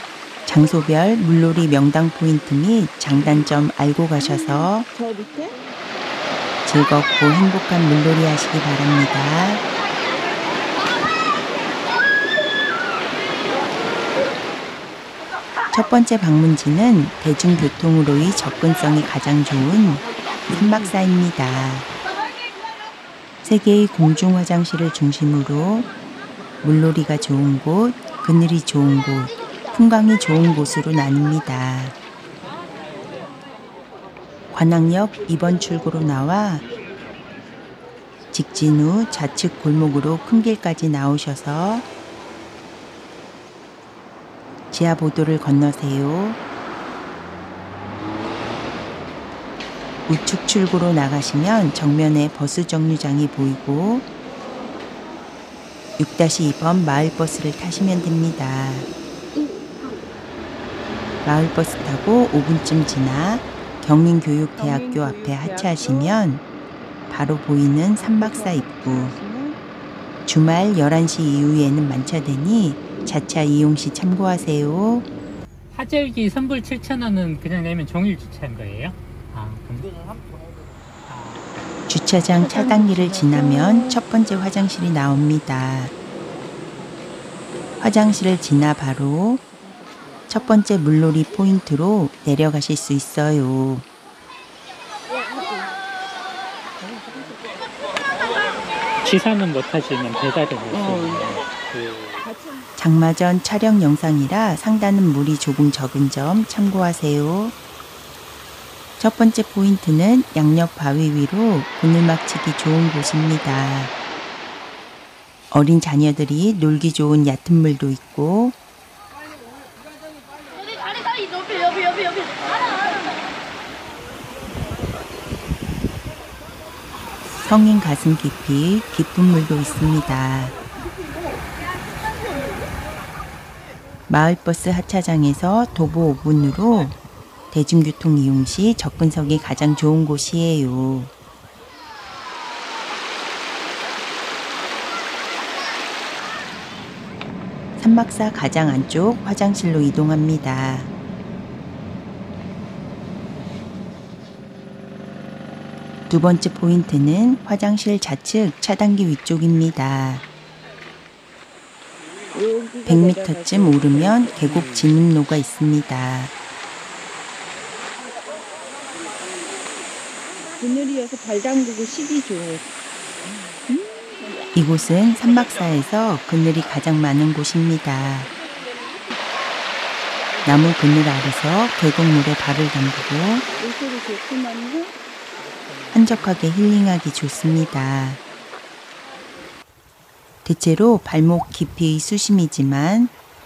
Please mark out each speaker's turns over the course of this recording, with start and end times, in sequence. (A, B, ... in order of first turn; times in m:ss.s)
0:00.4-0:04.9 A
0:04.2-0:05.6 B
0:06.6-0:09.6 A
0:15.7-0:21.9 A
0:20.5-0:20.9 C
0:23.4-0:25.9 A
0:26.6-0:32.0 A
0:34.5-0:36.6 A
0:38.3-0:41.8 A
0:44.7-0:46.4 A
0:50.1-0:54.0 A
0:56.0-0:58.9 A
0:59.4-1:00.0 B
1:01.2-1:06.4 A
1:04.6-1:06.2 B
1:07.1-1:09.1 A
1:08.0-1:09.6 B
1:10.2-1:15.0 A
1:15.7-1:20.3 C
1:21.0-1:21.5 C
1:21.9-1:25.9 A
1:22.4-1:24.0 B
1:27.8-1:29.4 A
1:30.3-1:33.8 A
1:36.9-1:37.4 B
1:39.0-1:42.3 C
1:40.7-1:41.4 B
1:42.2-1:42.6 B
1:42.8-1:47.5 A
1:49.0-1:53.9 A
1:55.5-1:58.6 A
2:07.4-2:10.6 A
2:14.1-2:17.0 A
2:17.5-2:21.1 A
2:27.8-2:30.9 A
2:36.1-2:40.2 A
2:42.3-2:44.2 B
2:42.8-2:46.3 A
2:44.3-2:44.9 C
2:50.6-2:52.6 B
2:53.7-2:54.5 B
2:54.5-2:58.3 A
3:00.4-3:03.4 A
3:03.6-3:04.9 B
3:05.4-3:06.6 C
3:05.9-3:08.2 A
3:10.4-3:13.1 A